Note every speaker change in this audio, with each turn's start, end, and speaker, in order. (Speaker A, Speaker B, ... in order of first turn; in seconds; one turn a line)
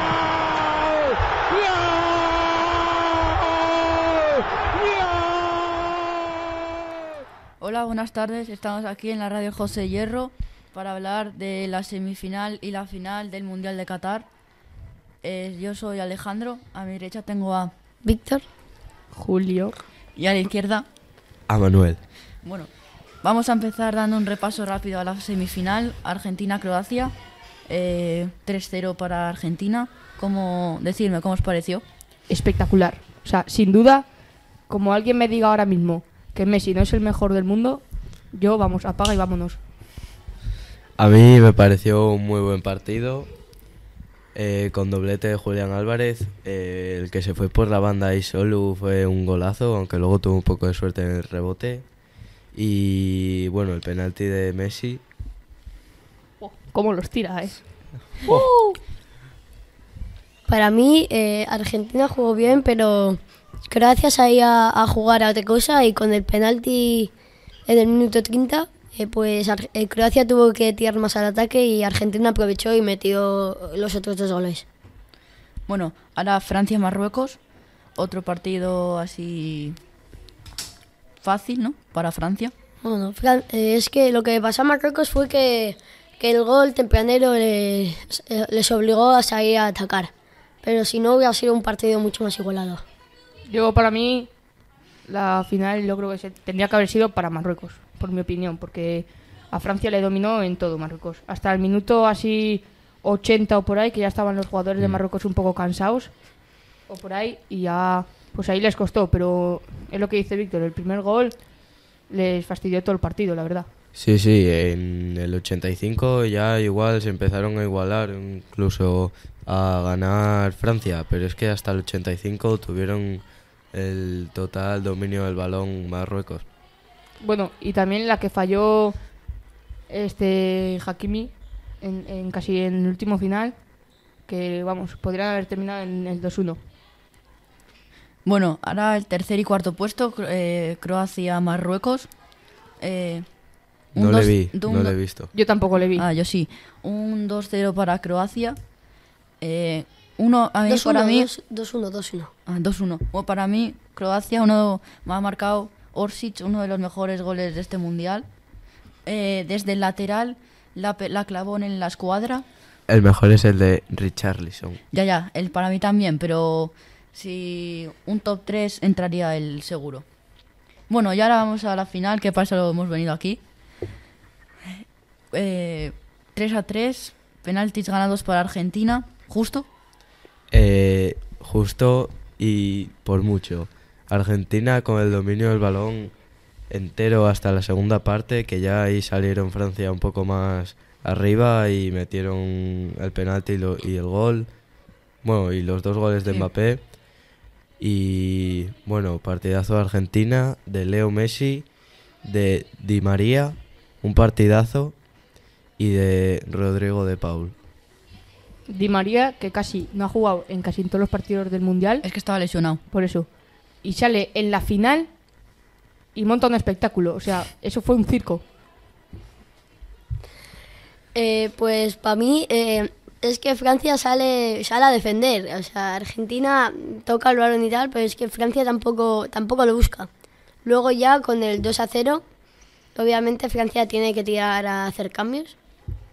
Speaker A: 0.5-6.1
Speaker B: 7.6-14.3
Speaker B: 15.2-17.7
Speaker C: 18.0-18.4
Speaker D: 19.1-19.8
Speaker B: 20.1-20.9
Speaker E: 21.5-22.0
Speaker B: 22.4-22.7
Speaker B: 23.2-27.1
Speaker B: 27.7-31.8
Speaker D: 32.3-34.0
Speaker D: 34.7-39.6
Speaker E: 41.0-43.3
Speaker E: 44.3-51.8
Speaker E: 52.5-55.0
Speaker D: 56.4-57.6
Speaker D: 58.2-58.7
Speaker C: 60.5-67.1
Speaker C: 67.7-74.6
Speaker B: 75.7-77.4
Speaker B: 78.0-79.8
Speaker B: 81.2-82.5
Speaker C: 82.8-90.1
Speaker C: 90.6-92.8
Speaker D: 93.5-94.3
Speaker D: 95.0-106.1
Speaker D: 106.9-111.3
Speaker D: 112.1-113.7
Speaker E: 113.9-126.4
Speaker D: 127.2-128.9
Speaker D: 129.9-133.6
Speaker D: 134.2-136.6
Speaker B: 138.2-142.1
Speaker B: 142.8-143.2
Speaker B: 143.9-144.9
Speaker E: 143.9-145.3
Speaker D: 145.3-146.1
Speaker B: 145.9-148.6
Speaker B: 149.4-151.3
Speaker C: 150.7-152.3
Speaker B: 152.4-158.3
Speaker B: 159.1-162.4
Speaker E: 162.9-164.8
Speaker B: 164.9-170.0
Speaker B: 170.9-173.4
Speaker B: 175.3-179.7
Speaker E: 180.5-186.1
Speaker E: 186.7-194.5
Speaker E: 195.2-196.8
Speaker E: 197.8-201.7
Speaker E: 202.2-204.9
Speaker E: 205.8-207.5
Speaker D: 208.7-212.0
Speaker B: 212.0-212.8
Speaker D: 212.9-213.3
Speaker D: 213.8-215.1
Speaker D: 216.1-218.4
Speaker C: 221.1-230.1
Speaker C: 230.6-232.2
Speaker C: 232.9-235.5